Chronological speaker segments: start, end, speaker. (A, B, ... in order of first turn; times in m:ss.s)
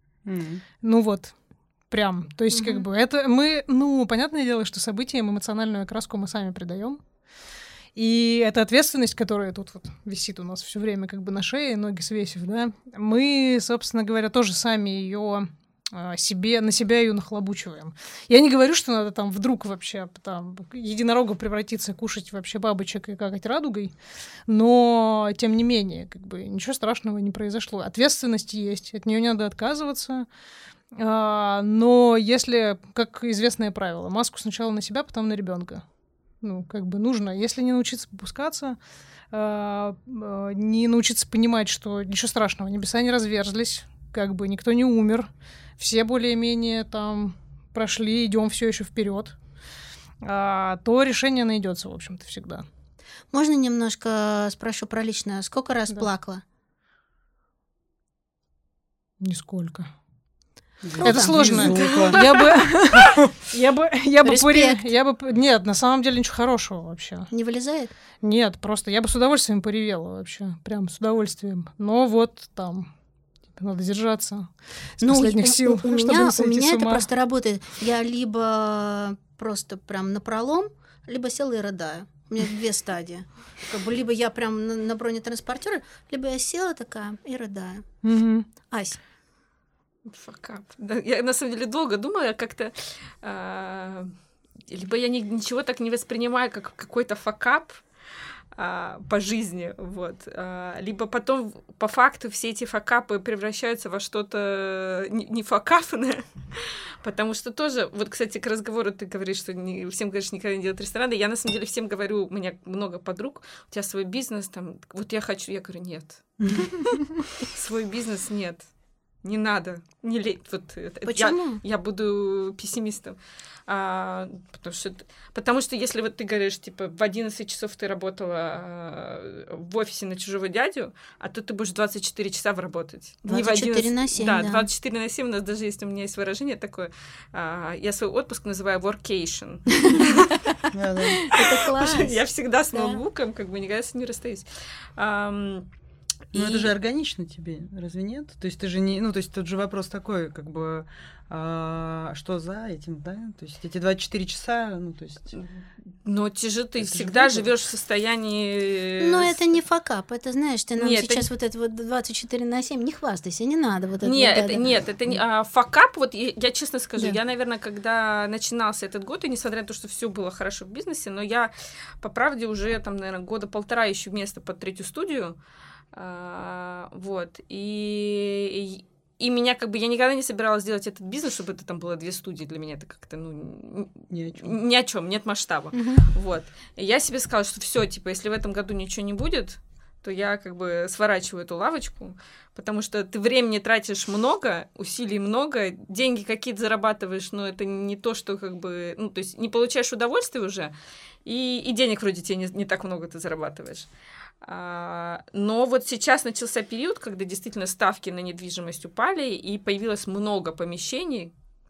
0:00.2-0:00.6 A
0:00.8-0:01.3 B
0:01.9-0:07.0 B
0:02.5-0:02.8 C
0:07.9-0:23.9 B
0:24.5-0:30.3 B
0:30.9-0:35.8 B
0:36.4-0:38.8 B
0:39.3-0:49.3 B
0:50.2-0:52.6 B
0:53.3-0:56.4 C
0:59.2-0:59.9 B
1:00.8-1:03.3 A
1:01.0-1:02.0 C
1:01.0-1:07.3 B
1:01.8-1:02.6 D
1:04.2-1:04.9 C
1:07.3-1:07.9 C
1:08.2-1:12.9 B
1:13.6-1:17.1 B
1:15.0-1:27.8 C
1:28.0-1:28.5 B
1:28.7-1:29.0 C
1:30.1-1:34.1 D
1:34.7-1:37.8 D
1:38.5-1:56.2 D
1:56.4-1:57.2 A
1:57.4-1:58.6 D
1:59.2-2:20.4 D
2:01.1-2:01.6 C
2:13.2-2:14.7 C
2:19.8-2:20.1 C
2:20.7-2:21.2 A
2:21.2-2:22.2 C
2:21.3-2:25.7 D
2:22.7-2:23.0 C
2:26.3-2:26.7 D
2:26.3-2:35.4 A
2:36.0-2:39.5 D
2:36.8-2:37.5 A
2:39.0-2:44.8 C
2:40.8-2:41.3 D
2:44.0-2:55.4 D
2:55.9-3:20.7 D
3:04.1-3:04.5 A
3:05.7-3:06.0 C
3:21.2-3:23.9 D
3:24.4-3:31.3 D